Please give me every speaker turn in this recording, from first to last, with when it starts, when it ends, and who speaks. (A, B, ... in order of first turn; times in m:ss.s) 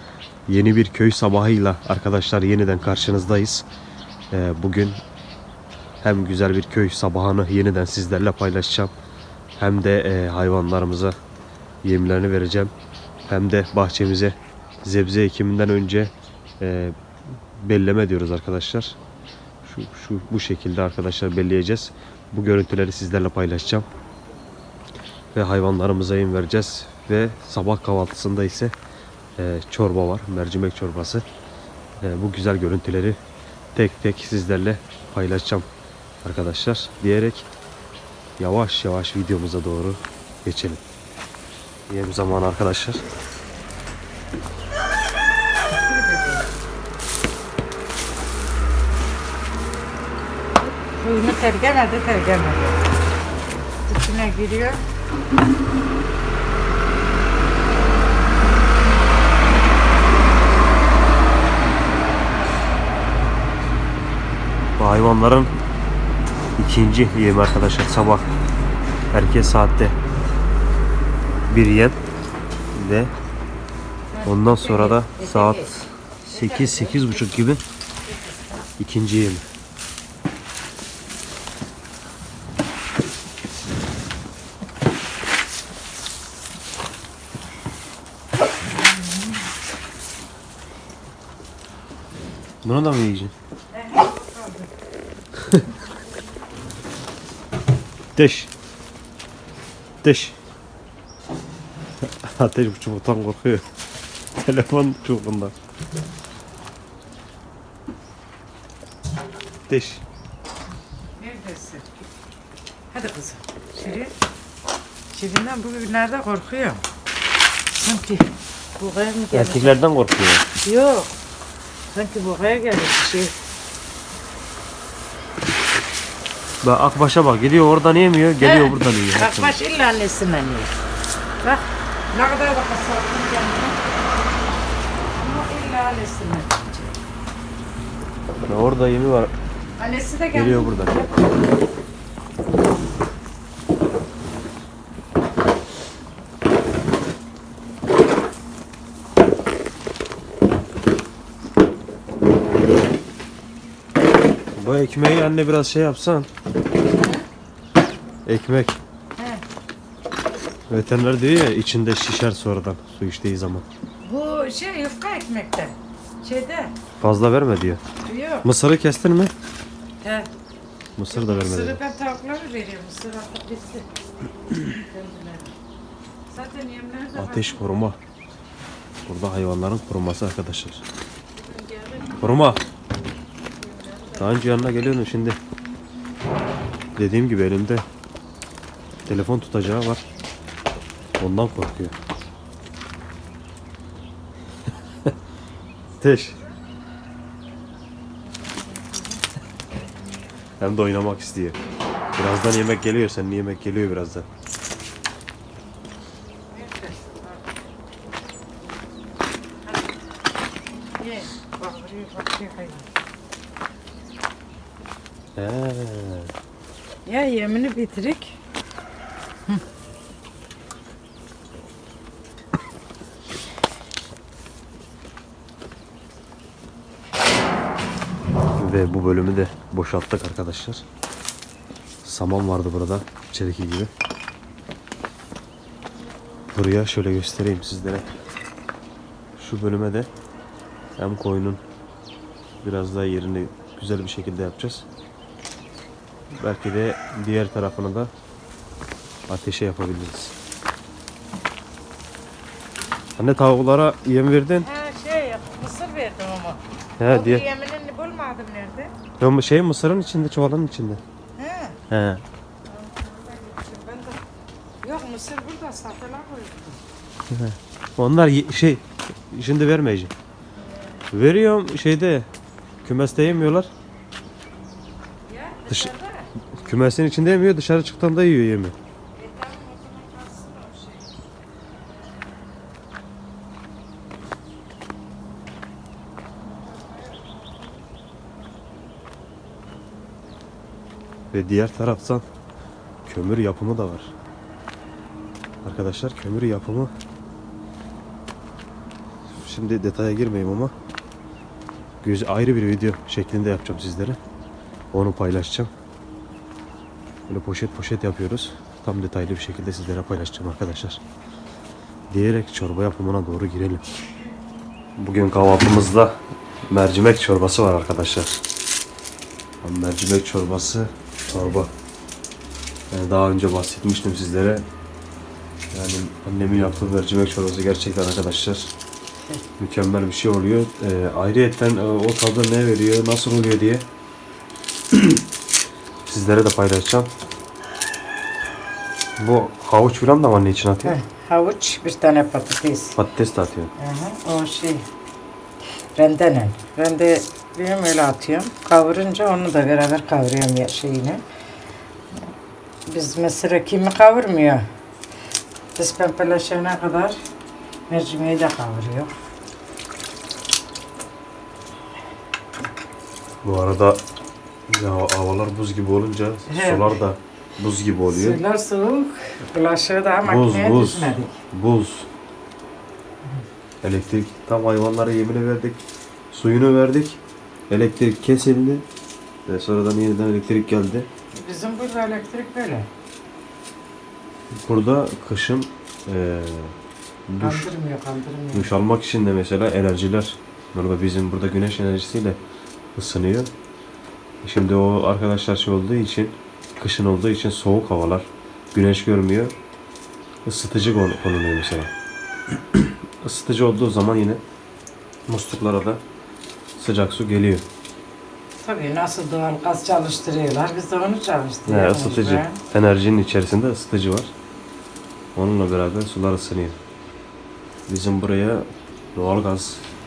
0:00.5-0:03.6 A
0:04.3-0:05.0 A
0:06.0-0:08.9 A
0:09.6-0:11.2 A
0:11.8-0:12.7 A
0:13.3-0:17.0 A
0:17.6-0:18.9 A
0:19.6-0:23.8 A
0:25.3-0:28.7 A
0:29.4-0:31.2 A
0:32.0-0:33.2 A
0:33.7-0:35.7 A
0:36.2-0:37.4 A
0:38.4-0:40.8 A
0:41.9-0:43.0 A
0:45.8-0:46.4 B
0:51.0-0:52.8 B
0:53.9-0:54.8 B
1:04.8-1:05.5 A
1:06.6-1:08.2 A
1:09.1-1:10.0 A
1:11.5-1:12.0 A
1:12.7-1:13.1 A
1:14.1-1:15.7 B
1:14.2-1:15.8 A
1:16.3-1:17.6 A
1:16.3-1:17.2 B
1:18.8-1:19.4 A
1:32.6-1:33.3 A
1:33.7-1:34.7 B
1:38.1-1:38.5 A
1:40.0-1:40.4 A
1:42.2-1:43.6 A
1:44.4-1:45.5 A
1:49.7-1:50.0 A
1:51.2-1:51.8 B
1:52.9-1:54.1 B
1:55.1-1:56.8 B
1:57.7-1:58.2 B
1:58.8-1:59.7 B
1:59.3-2:00.4 A
2:00.6-2:01.1 B
2:01.9-2:03.3 B
2:06.6-2:09.6 A
2:08.4-2:10.7 B
2:11.4-2:13.8 B
2:15.1-2:16.9 B
2:18.5-2:19.3 A
2:19.8-2:21.2 B
2:20.3-2:21.0 A
2:34.5-2:36.3 A
2:37.0-2:37.2 B
2:38.2-2:38.8 A
2:40.7-2:43.6 A
2:44.0-2:46.7 B
2:47.0-2:47.8 A
2:48.0-2:48.4 B
2:48.4-2:49.3 A
2:50.0-2:50.3 B
2:51.0-2:51.8 A
2:51.1-2:53.8 B
2:54.6-2:55.5 B
2:56.3-2:57.8 B
2:57.1-2:58.0 A
2:59.1-3:00.8 A
3:01.4-3:02.6 B
3:02.2-3:02.6 A
3:03.6-3:04.2 B
3:04.2-3:05.4 A
3:07.0-3:07.8 A
3:09.0-3:10.0 A
3:11.2-3:11.9 A
3:16.0-3:16.4 A
3:20.6-3:21.6 A
3:22.2-3:24.2 A
3:26.5-3:27.4 B
3:31.0-3:32.8 B
3:35.4-3:36.3 A
3:37.0-3:38.4 B
3:48.6-3:50.8 A
3:52.0-3:53.9 A
3:56.5-3:58.1 A
3:59.4-4:00.1 A
4:01.0-4:01.6 A
4:02.6-4:04.8 A
4:06.4-4:08.1 A
4:09.3-4:10.3 A
4:13.2-4:14.7 A
4:14.7-4:18.9 B
4:17.0-4:17.4 A
4:19.2-4:21.0 A
4:21.4-4:21.8 B
4:21.9-4:22.2 A
4:22.7-4:24.2 B
4:24.8-4:26.8 B
4:27.3-4:30.1 A
4:31.1-4:32.3 A
4:32.8-4:33.7 A
4:35.3-4:36.3 B
4:36.5-4:38.8 A
4:39.2-4:41.1 B
4:46.8-4:47.4 B
4:51.3-4:52.2 A
4:53.0-4:54.1 A
4:55.6-4:56.9 A
4:59.3-5:00.7 A
5:02.0-5:04.2 A
5:04.9-5:05.7 A
5:07.3-5:11.0 A
5:12.1-5:13.8 A
5:15.0-5:16.2 A
5:16.7-5:18.4 A
5:19.6-5:21.7 A
5:21.3-5:21.6 B
5:22.9-5:24.6 A
5:25.7-5:28.7 A
5:29.6-5:33.8 A
5:36.1-5:37.1 A
5:39.2-5:40.9 A
5:40.8-5:42.9 B
5:43.0-5:43.7 A
5:43.8-5:44.8 B
5:46.0-5:51.2 B
5:52.8-5:54.6 B
5:55.8-5:57.2 B
5:57.9-5:59.1 B
6:03.4-6:04.0 A
6:04.7-6:08.4 A
6:06.5-6:07.0 B
6:08.1-6:11.4 B
6:10.2-6:12.1 A
6:13.8-6:17.2 A
6:17.7-6:18.8 A
6:19.5-6:21.1 A
6:21.3-6:22.9 B
6:24.5-6:26.7 A
6:27.3-6:27.7 A
6:27.4-6:28.7 B
6:28.5-6:32.4 A
6:33.0-6:33.5 A
6:34.4-6:39.5 A
6:40.4-6:41.9 A
6:42.7-6:44.4 A
6:45.3-6:46.0 A
6:46.8-6:47.6 A
6:48.6-6:52.6 B
6:51.6-6:54.3 A
6:55.3-6:56.8 A
6:57.9-6:59.8 A